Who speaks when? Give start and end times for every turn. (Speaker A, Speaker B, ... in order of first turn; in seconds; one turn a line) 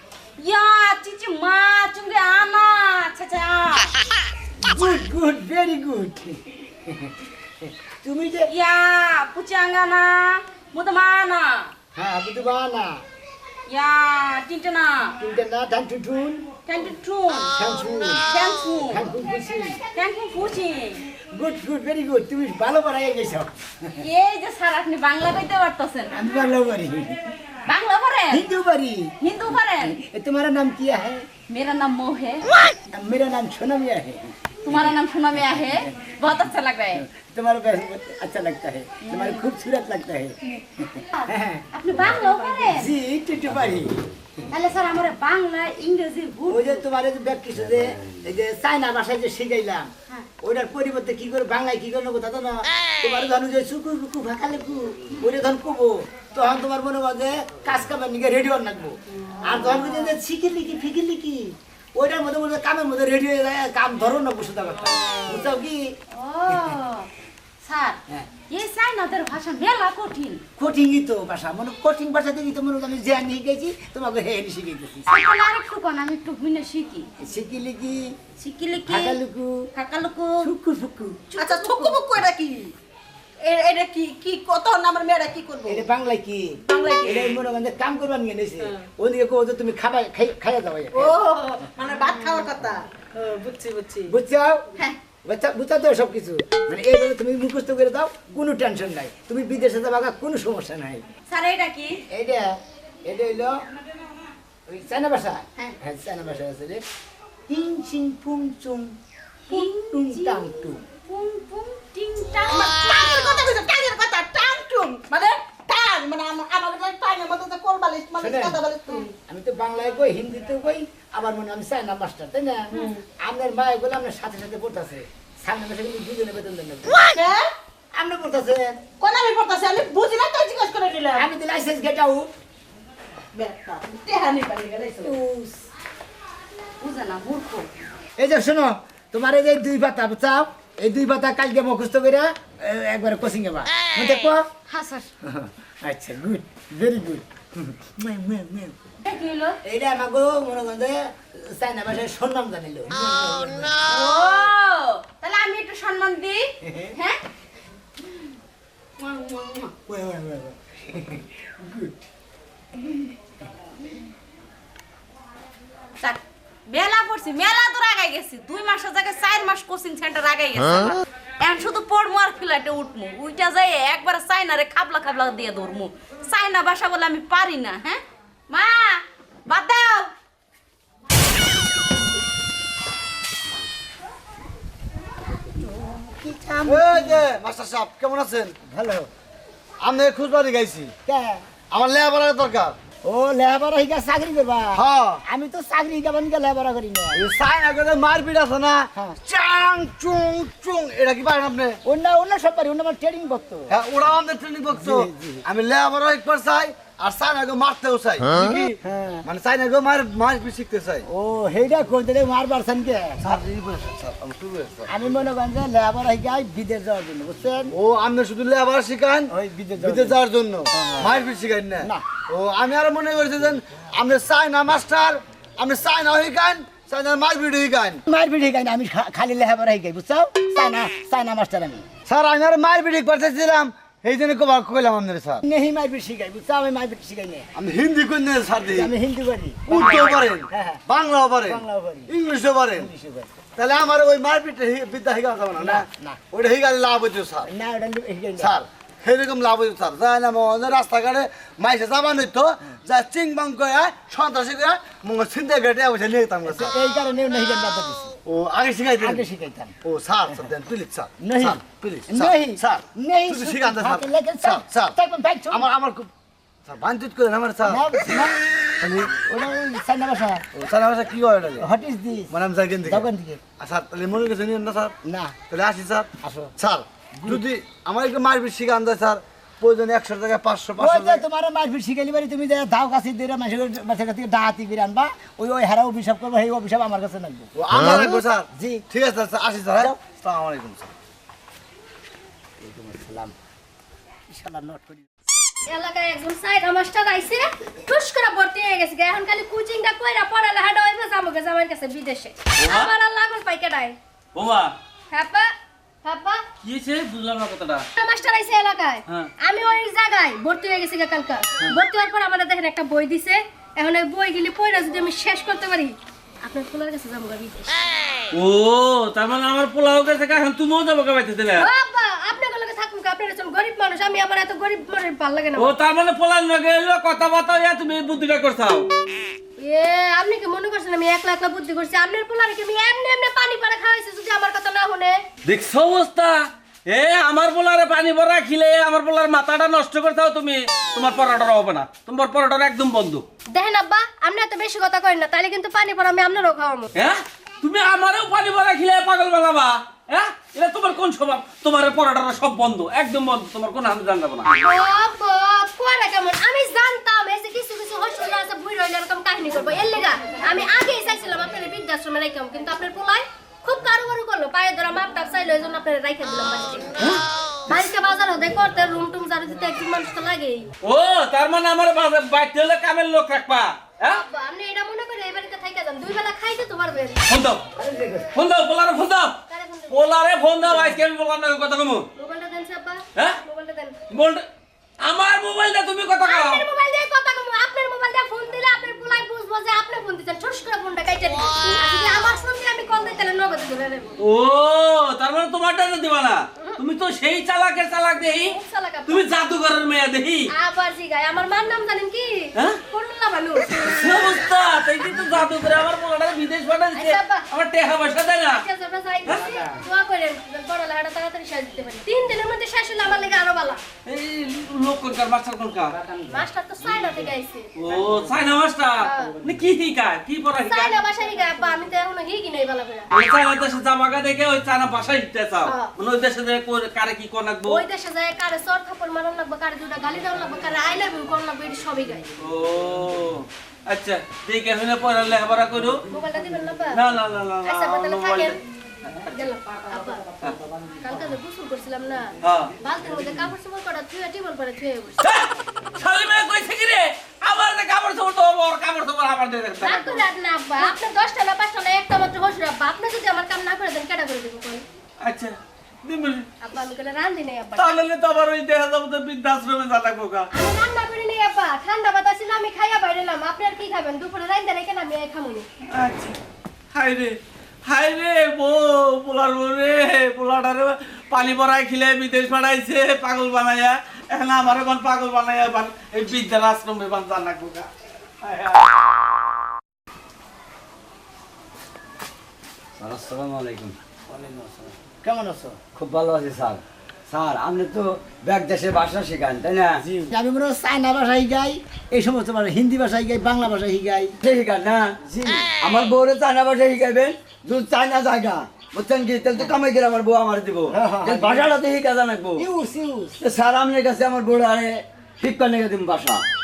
Speaker A: 0.4-3.9
Speaker B: 4.6-8.5
Speaker A: 8.5-11.7
Speaker B: 11.9-13.0
Speaker A: 13.7-15.2
Speaker B: 15.2-16.5
Speaker A: 16.7-17.6
Speaker B: 17.6-18.3
Speaker A: 18.2-19.0
Speaker B: 18.9-19.8
Speaker A: 19.9-21.0
Speaker B: 21.3-23.5
Speaker A: 24.0-26.1
Speaker B: 26.1-27.2
Speaker A: 27.7-28.5
Speaker B: 28.3-29.1
Speaker A: 29.2-30.0
Speaker B: 29.8-31.3
Speaker A: 31.5-32.5
Speaker B: 32.9-34.9
Speaker A: 34.6-37.0
Speaker B: 35.5-36.1
Speaker B: 37.0-41.6
Speaker A: 39.0-39.5
Speaker A: 41.2-42.9
Speaker B: 42.8-44.0
Speaker A: 44.5-46.8
Speaker B: 46.5-49.9
Speaker B: 50.4-65.8
Speaker A: 59.5-60.2
Speaker A: 66.1-67.1
Speaker B: 66.5-66.8
Speaker A: 67.6-70.4
Speaker B: 70.6-75.1
Speaker A: 75.1-77.1
Speaker B: 77.2-78.2
Speaker A: 78.4-79.2
Speaker B: 78.9-79.7
Speaker A: 79.8-80.5
Speaker B: 80.4-81.3
Speaker A: 81.3-82.1
Speaker C: 81.4-82.7
Speaker C: 83.4-85.9
Speaker B: 85.7-91.1
Speaker C: 86.7-87.3
Speaker C: 91.0-94.1
Speaker B: 94.1-94.6
Speaker B: 95.3-101.0
Speaker A: 101.3-102.0
Speaker B: 102.1-102.5
Speaker B: 103.1-103.6
Speaker B: 104.7-106.8
Speaker B: 107.5-109.0
Speaker B: 109.5-110.8
Speaker A: 109.5-112.8
Speaker C: 112.4-119.1
Speaker B: 118.2-118.6
Speaker B: 119.3-127.0
Speaker C: 122.7-123.0
Speaker C: 127.1-127.5
Speaker B: 127.9-128.8
Speaker C: 129.0-131.3
Speaker B: 131.2-132.3
Speaker C: 133.3-135.2
Speaker B: 135.0-135.6
Speaker A: 136.8-137.7
Speaker B: 138.2-144.4
Speaker A: 144.7-145.1
Speaker B: 145.2-148.8
Speaker A: 149.1-149.6
Speaker B: 149.6-153.8
Speaker A: 153.8-157.2
Speaker B: 156.7-156.9
Speaker A: 159.0-159.7
Speaker B: 159.9-162.0
Speaker A: 166.0-180.1
Speaker B: 185.4-187.3
Speaker D: 186.7-188.6
Speaker B: 188.7-189.1
Speaker D: 189.8-190.9
Speaker B: 191.1-191.4
Speaker D: 191.7-192.8
Speaker B: 193.0-197.2
Speaker D: 194.7-195.2
Speaker D: 197.1-201.8
Speaker B: 199.0-199.2
Speaker B: 201.8-203.8
Speaker D: 203.7-208.7
Speaker B: 204.7-205.4
Speaker B: 208.4-209.2
Speaker D: 209.2-211.1
Speaker B: 211.1-213.2
Speaker D: 213.2-214.9
Speaker B: 214.9-217.7
Speaker D: 217.7-228.0
Speaker B: 219.3-220.2
Speaker B: 220.7-221.2
Speaker B: 228.1-231.8
Speaker D: 232.1-235.4
Speaker B: 235.4-237.5
Speaker D: 237.6-238.9
Speaker B: 238.7-240.8
Speaker D: 239.7-242.9
Speaker B: 241.4-242.1
Speaker B: 242.7-243.3
Speaker D: 243.6-247.5
Speaker B: 245.6-246.2
Speaker B: 247.5-248.6
Speaker D: 248.4-256.8
Speaker B: 256.5-258.1
Speaker D: 258.3-259.3
Speaker B: 259.0-259.8
Speaker D: 259.8-264.9
Speaker B: 261.2-265.7
Speaker D: 265.5-266.1
Speaker D: 266.7-267.8
Speaker B: 267.7-268.4
Speaker D: 268.8-269.2
Speaker B: 269.2-270.5
Speaker D: 270.6-271.7
Speaker B: 271.6-273.4
Speaker D: 272.3-273.1
Speaker D: 273.6-274.9
Speaker B: 275.0-275.4
Speaker D: 275.5-281.2
Speaker B: 276.2-276.5
Speaker B: 280.8-288.9
Speaker D: 287.6-290.9
Speaker B: 292.6-293.3
Speaker B: 294.3-295.1
Speaker E: 295.7-304.0
Speaker F: 302.6-302.9
Speaker F: 304.4-304.8
Speaker E: 305.1-305.5
Speaker E: 306.0-306.4
Speaker F: 306.6-307.9
Speaker E: 308.0-317.8
Speaker F: 318.3-321.7
Speaker E: 321.6-325.7
Speaker F: 325.6-328.9
Speaker E: 329.6-335.2
Speaker F: 335.4-336.4
Speaker F: 336.9-343.2
Speaker E: 343.5-346.9
Speaker F: 347.0-354.5
Speaker E: 354.5-366.9
Speaker E: 367.7-370.7
Speaker F: 370.8-374.2
Speaker E: 374.0-377.2
Speaker F: 377.3-377.6
Speaker B: 377.8-378.3
Speaker F: 378.4-379.4
Speaker E: 379.5-380.2
Speaker F: 379.9-382.1
Speaker E: 382.2-384.0
Speaker F: 384.1-384.4
Speaker F: 385.0-386.6
Speaker E: 386.2-394.1
Speaker F: 394.2-398.6
Speaker E: 398.4-399.3
Speaker F: 399.1-400.5
Speaker E: 400.5-403.7
Speaker F: 403.8-408.6
Speaker E: 406.9-407.5
Speaker E: 408.5-413.8
Speaker F: 414.1-415.9
Speaker B: 415.9-417.3
Speaker E: 416.3-417.7
Speaker F: 417.8-421.0
Speaker E: 419.0-419.4
Speaker E: 420.7-423.1
Speaker F: 423.1-427.8
Speaker E: 425.7-425.9
Speaker E: 427.7-432.2
Speaker F: 432.4-436.0
Speaker E: 436.1-437.0
Speaker F: 436.9-439.3
Speaker E: 437.6-438.6
Speaker E: 439.3-440.2
Speaker E: 441.0-445.2
Speaker F: 442.4-442.7
Speaker F: 445.2-450.2
Speaker E: 449.8-454.8
Speaker F: 455.2-456.5
Speaker E: 456.6-458.0
Speaker F: 457.8-460.5
Speaker E: 460.5-465.7
Speaker F: 466.0-466.4
Speaker F: 466.9-467.4
Speaker F: 467.9-477.9
Speaker F: 478.4-478.9
Speaker G: 483.0-484.9
Speaker B: 485.2-485.8
Speaker G: 486.0-490.2
Speaker B: 490.3-494.3
Speaker G: 494.4-502.6
Speaker B: 500.9-501.8
Speaker B: 502.6-503.4
Speaker G: 503.4-506.4